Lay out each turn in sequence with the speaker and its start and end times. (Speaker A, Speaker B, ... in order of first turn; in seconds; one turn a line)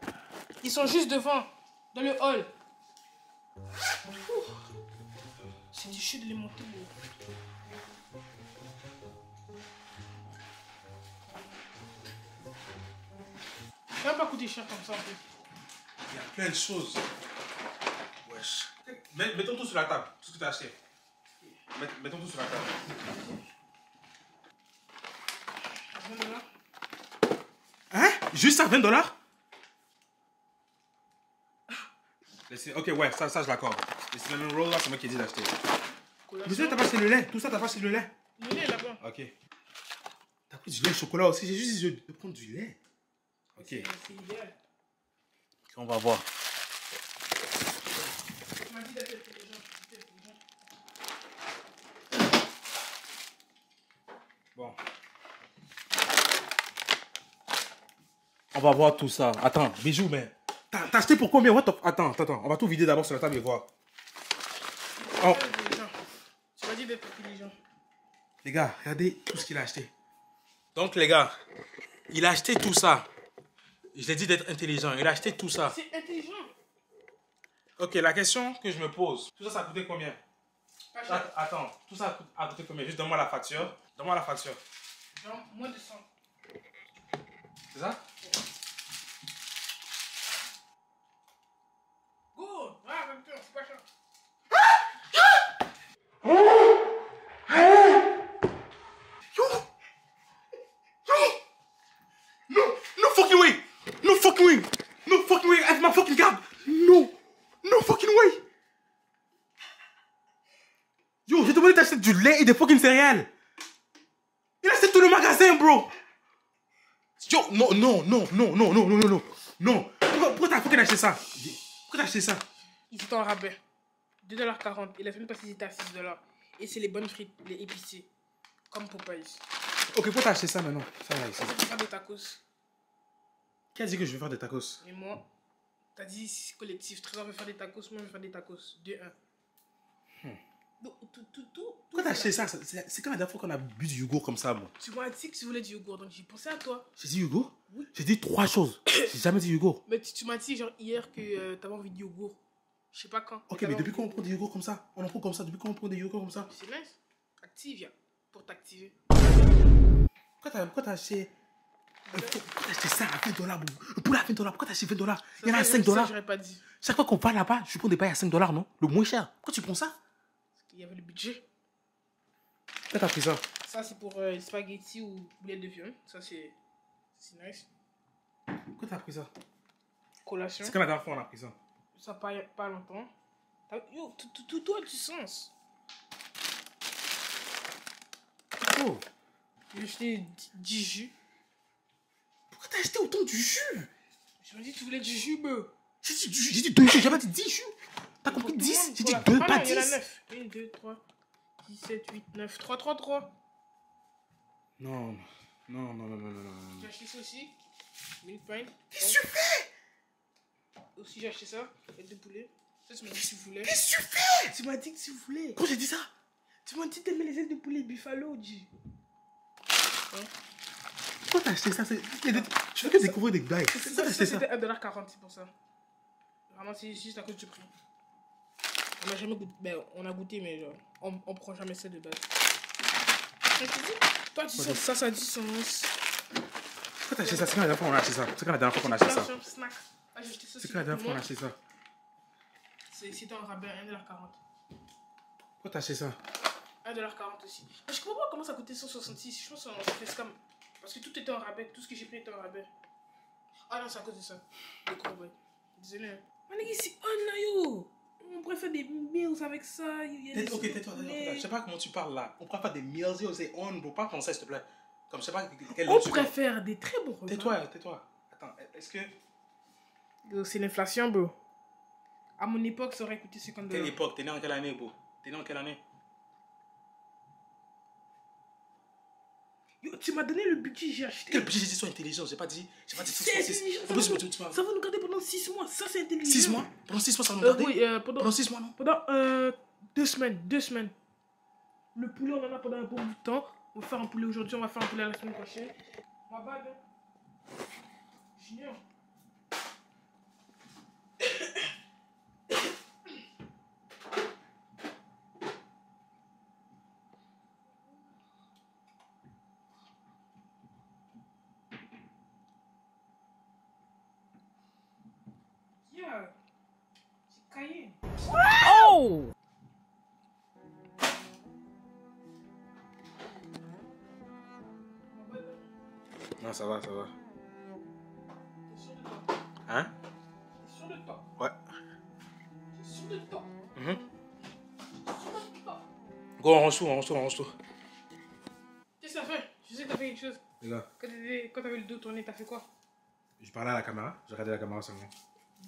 Speaker A: 0.6-2.5
Speaker A: 4.1-4.6
Speaker A: 5.7-6.9
Speaker A: 14.0-15.2
Speaker B: 16.1-17.0
Speaker B: 18.2-20.8
Speaker B: 21.7-22.7
Speaker A: 23.1-23.4
Speaker A: 25.9-26.5
Speaker B: 27.9-29.1
Speaker B: 32.5-35.5
Speaker A: 36.3-37.0
Speaker B: 36.5-38.1
Speaker A: 38.4-39.0
Speaker B: 39.0-39.3
Speaker B: 40.5-42.8
Speaker B: 43.6-43.9
Speaker A: 43.6-44.6
Speaker B: 45.7-46.2
Speaker A: 48.6-50.4
Speaker B: 58.5-63.7
Speaker A: 65.0-66.0
Speaker A: 66.6-67.6
Speaker B: 68.4-69.9
Speaker B: 70.8-71.3
Speaker B: 72.1-73.1
Speaker B: 73.9-75.8
Speaker A: 75.6-76.5
Speaker B: 77.8-80.2
Speaker A: 80.9-81.3
Speaker B: 81.1-84.6
Speaker A: 85.2-86.1
Speaker B: 87.7-88.0
Speaker A: 92.3-93.8
Speaker B: 99.3-99.7
Speaker B: 101.1-101.4
Speaker B: 102.5-108.4
Speaker B: 111.3-113.3
Speaker B: 114.6-115.9
Speaker B: 117.2-122.5
Speaker A: 122.9-123.6
Speaker A: 124.2-128.1
Speaker A: 128.7-129.4
Speaker B: 129.9-131.6
Speaker A: 131.3-132.4
Speaker B: 133.8-134.8
Speaker A: 134.8-135.2
Speaker A: 136.0-139.1
Speaker A: 140.8-142.5
Speaker B: 141.9-144.7
Speaker A: 144.8-146.9
Speaker B: 147.0-149.8
Speaker A: 149.9-152.4
Speaker A: 152.9-154.3
Speaker B: 153.5-156.5
Speaker A: 156.5-159.0
Speaker B: 160.4-161.3
Speaker A: 162.1-162.4
Speaker B: 162.1-166.1
Speaker A: 165.4-166.6
Speaker B: 166.8-170.0
Speaker A: 170.6-171.4
Speaker B: 172.9-173.4
Speaker A: 173.6-176.6
Speaker A: 177.2-177.7
Speaker B: 178.8-179.3
Speaker A: 180.2-180.8
Speaker B: 180.6-181.6
Speaker A: 181.9-183.1
Speaker A: 183.7-185.5
Speaker B: 188.6-189.0
Speaker A: 189.7-191.1
Speaker B: 192.5-193.9
Speaker A: 194.4-195.7
Speaker B: 196.0-200.0
Speaker A: 198.2-201.0
Speaker A: 201.6-203.3
Speaker B: 204.8-206.9
Speaker A: 206.8-207.6
Speaker A: 208.2-209.2
Speaker B: 208.9-209.7
Speaker A: 211.0-213.7
Speaker B: 213.6-214.5
Speaker A: 214.4-215.6
Speaker B: 215.6-216.1
Speaker A: 216.6-218.7
Speaker B: 221.3-224.4
Speaker A: 222.3-225.5
Speaker A: 226.5-227.7
Speaker A: 229.0-232.3
Speaker A: 233.6-235.9
Speaker B: 234.6-234.8
Speaker B: 237.0-239.3
Speaker A: 237.2-237.6
Speaker A: 238.8-241.2
Speaker B: 240.6-241.6
Speaker A: 242.9-244.4
Speaker B: 245.6-246.2
Speaker A: 246.8-252.7
Speaker A: 253.7-261.5
Speaker B: 260.3-266.3
Speaker A: 265.7-267.6
Speaker B: 267.3-269.1
Speaker A: 270.2-271.4
Speaker A: 272.4-274.0
Speaker B: 273.7-275.8
Speaker A: 279.8-281.5
Speaker B: 281.3-284.6
Speaker A: 282.9-286.6
Speaker B: 286.2-288.7
Speaker A: 287.4-290.9
Speaker A: 291.9-295.7
Speaker A: 296.3-296.8
Speaker A: 298.4-298.8
Speaker A: 301.2-301.5
Speaker A: 315.9-316.3
Speaker A: 317.3-319.1
Speaker A: 325.1-325.6
Speaker B: 326.4-327.1
Speaker A: 328.7-329.3
Speaker A: 330.6-331.2
Speaker A: 332.8-333.5
Speaker B: 333.8-334.0
Speaker A: 335.1-335.8
Speaker B: 336.4-337.6
Speaker A: 339.0-340.4
Speaker B: 340.6-340.9
Speaker A: 341.0-342.6
Speaker B: 343.4-345.1